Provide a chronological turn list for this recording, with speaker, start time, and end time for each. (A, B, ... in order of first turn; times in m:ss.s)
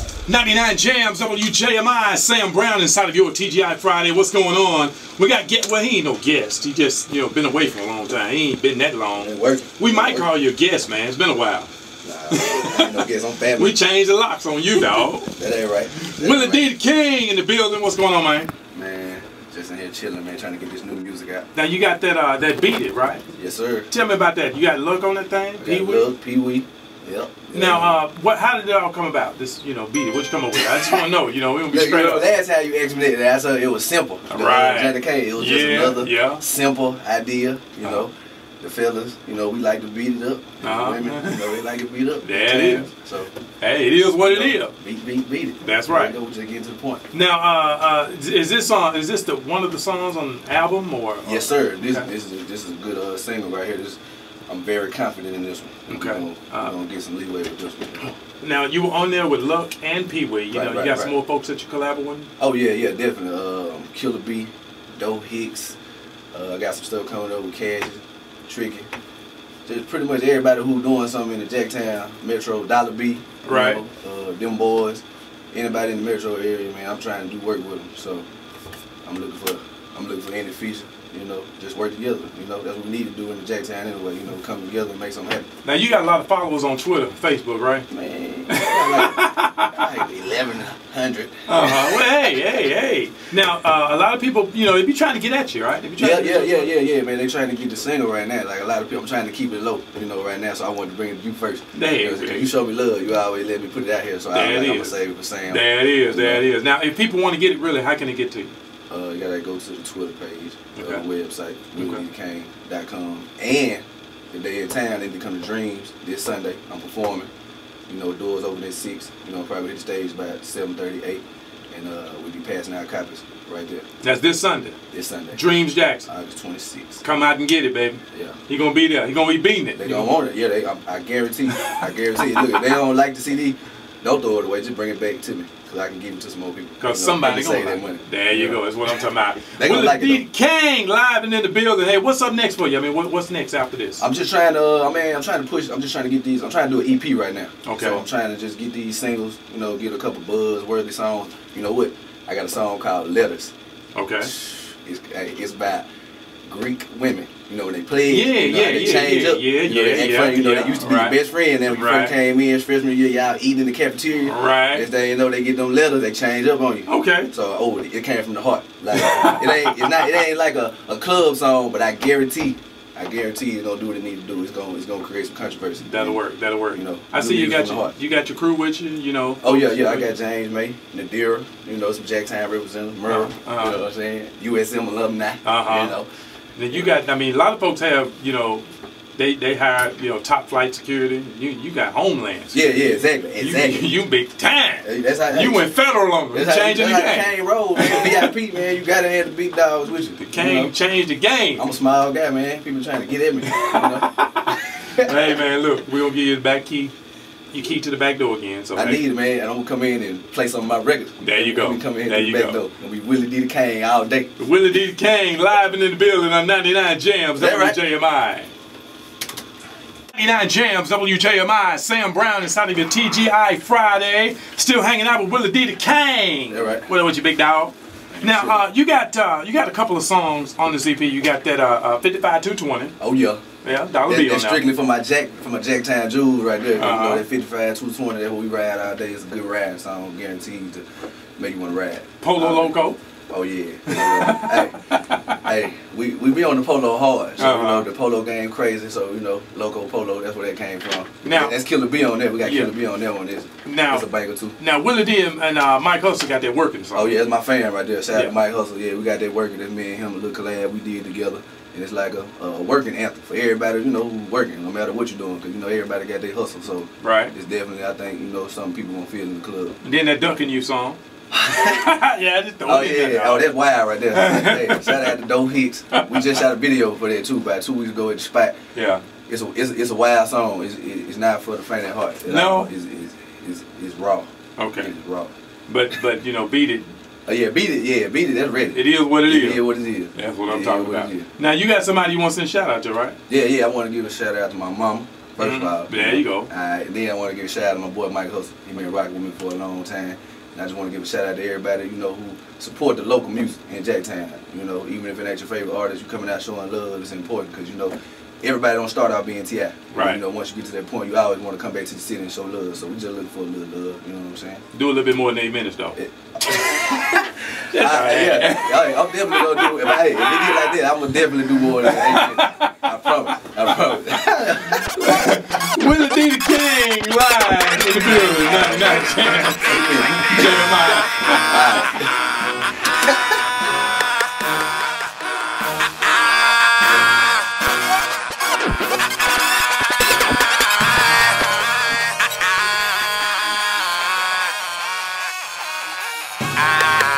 0:00.3-0:11.7 A
0:09.2-0:10.3 B
0:12.0-0:13.8 B
0:12.3-0:15.3 A
0:15.3-0:16.7 B
0:16.0-0:18.5 A
0:18.7-0:21.5 B
0:21.6-0:23.2 A
0:23.4-0:23.9 B
0:23.9-0:26.1 A
0:25.6-0:28.0 B
0:27.5-0:32.3 A
0:30.6-0:31.0 B
0:31.7-0:43.3 B
0:34.3-0:36.4 A
0:40.6-0:41.6 A
0:42.2-0:42.9 A
0:43.6-0:44.7 A
0:44.2-0:47.0 B
0:45.6-0:46.2 A
0:47.1-0:52.1 A
0:51.2-0:58.2 B
0:55.9-0:56.8 A
0:58.4-1:02.3 A
1:00.5-1:01.2 B
1:02.4-1:05.8 B
1:06.3-1:08.9 B
1:09.7-1:18.3 B
1:13.4-1:13.8 A
1:19.0-1:25.5 B
1:25.6-1:27.9 A
1:27.9-1:32.1 B
1:28.5-1:30.0 A
1:31.5-1:36.7 A
1:36.0-1:46.4 B
1:41.7-1:42.5 A
1:44.3-1:45.0 A
1:45.5-1:48.5 A
1:48.9-1:57.3 B
1:50.8-1:51.0 A
1:51.8-1:52.0 A
1:57.9-2:03.8 B
2:04.0-2:04.8 A
2:04.9-2:05.4 B
2:05.3-2:06.1 A
2:06.0-2:07.0 B
2:07.0-2:10.1 A
2:08.1-2:08.4 B
2:09.8-2:18.6 B
2:16.8-2:24.0 A
2:19.5-2:20.2 B
2:24.0-2:33.5 B
2:27.6-2:28.0 A
2:34.0-2:34.3 A
2:34.2-2:35.9 B
2:36.5-2:56.2 B
2:38.1-2:42.2 A
2:44.2-2:44.9 A
2:46.9-2:47.3 A
2:48.9-2:50.2 A
2:55.8-3:00.2 A
2:56.7-2:58.0 B
2:59.4-3:06.1 B
3:03.1-3:03.8 A
3:05.4-3:06.0 A
3:06.6-3:12.8 A
3:12.5-3:13.9 B
3:13.4-3:18.3 A
3:14.8-3:15.7 B
3:16.3-3:20.7 B
3:20.2-3:21.7 A
3:21.6-3:25.1 B
3:23.4-3:26.9 A
3:27.5-3:29.0 A
3:28.8-3:34.3 B
3:31.2-3:32.6 A
3:34.4-3:38.5 A
3:37.4-3:37.8 B
3:40.1-3:52.9 A
3:46.5-3:46.9 B
3:48.1-3:48.6 B
3:53.0-3:53.4 B
3:53.6-3:54.7 A
3:54.1-4:00.8 B
3:56.8-3:57.2 A
4:01.4-4:02.8 B
4:02.2-4:03.0 A
4:03.3-4:14.6 B
4:03.9-4:05.4 A
4:07.4-4:07.9 A
4:11.2-4:11.6 A
4:12.4-4:12.7 A
4:13.6-4:14.1 A
4:14.6-4:17.2 A
4:16.9-4:29.8 B
4:27.0-4:27.3 A
4:29.8-4:31.0 A
4:31.3-4:31.8 B
4:31.6-4:33.6 A
4:32.6-4:38.6 B
4:34.1-4:35.2 A
4:36.0-4:36.4 A
4:38.8-4:39.0 A
4:39.3-4:45.3 B
4:42.3-4:42.7 A
4:44.6-4:44.9 A
4:45.7-4:46.9 A
4:47.3-4:51.3 B
4:48.7-4:53.2 A
4:53.3-5:14.6 B
4:55.4-4:56.5 A
5:09.9-5:10.2 A
5:14.7-5:20.9 A
5:16.0-5:25.0 B
5:21.6-5:22.9 A
5:24.8-5:32.1 A
5:27.9-5:30.8 B
5:31.3-5:32.1 B